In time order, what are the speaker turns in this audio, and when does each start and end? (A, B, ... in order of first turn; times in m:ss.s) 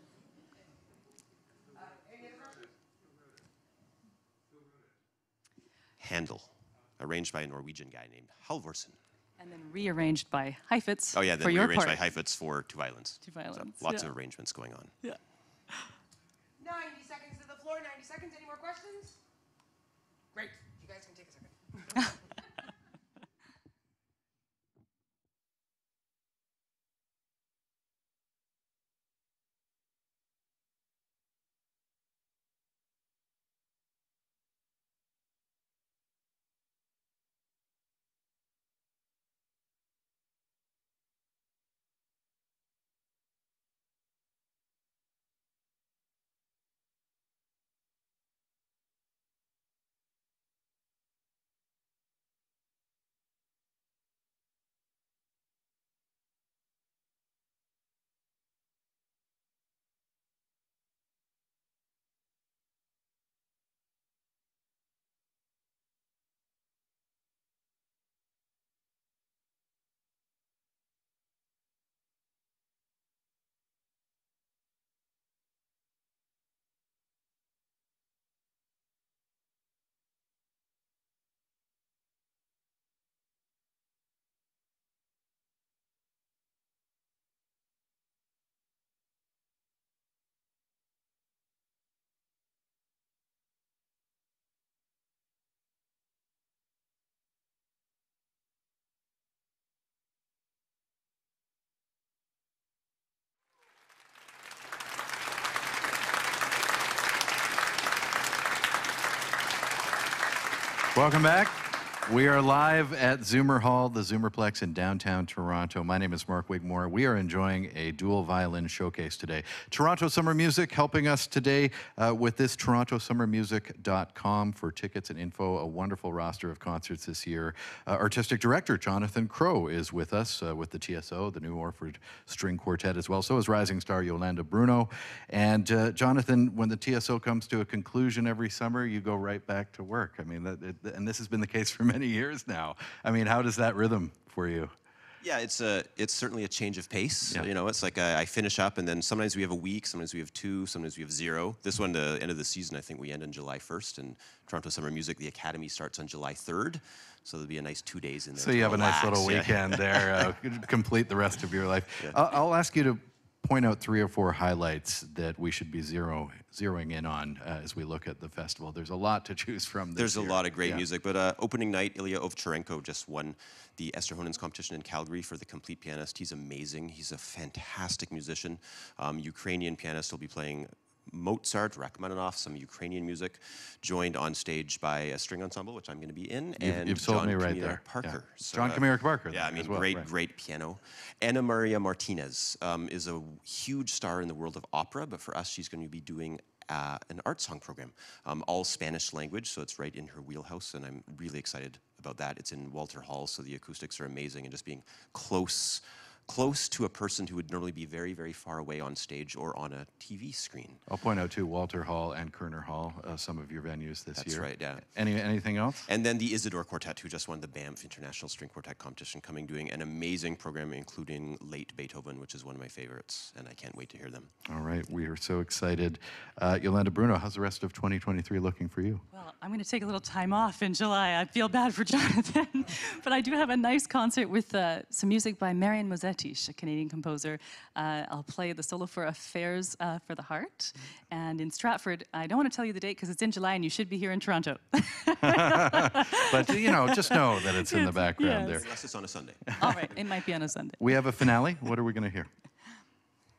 0:01.7-0:02.7 A
0:06.0-0:09.0 B
0:09.4-0:12.0 C
0:11.1-0:14.9 B
0:13.2-0:14.1 C
0:16.6-0:19.2 A
0:20.3-0:22.1 A
1:50.9-2:24.7 D
2:25.2-2:40.3 B
2:38.4-2:50.8 D
2:50.0-3:30.8 B
3:06.6-3:10.1 D
3:30.9-3:35.9 D
3:34.2-3:34.8 B
3:35.8-3:44.3 B
3:44.5-3:49.0 D
3:49.1-4:08.7 C
4:05.2-4:08.6 D
4:08.5-4:10.0 B
4:09.6-4:11.0 C
4:10.8-4:12.3 D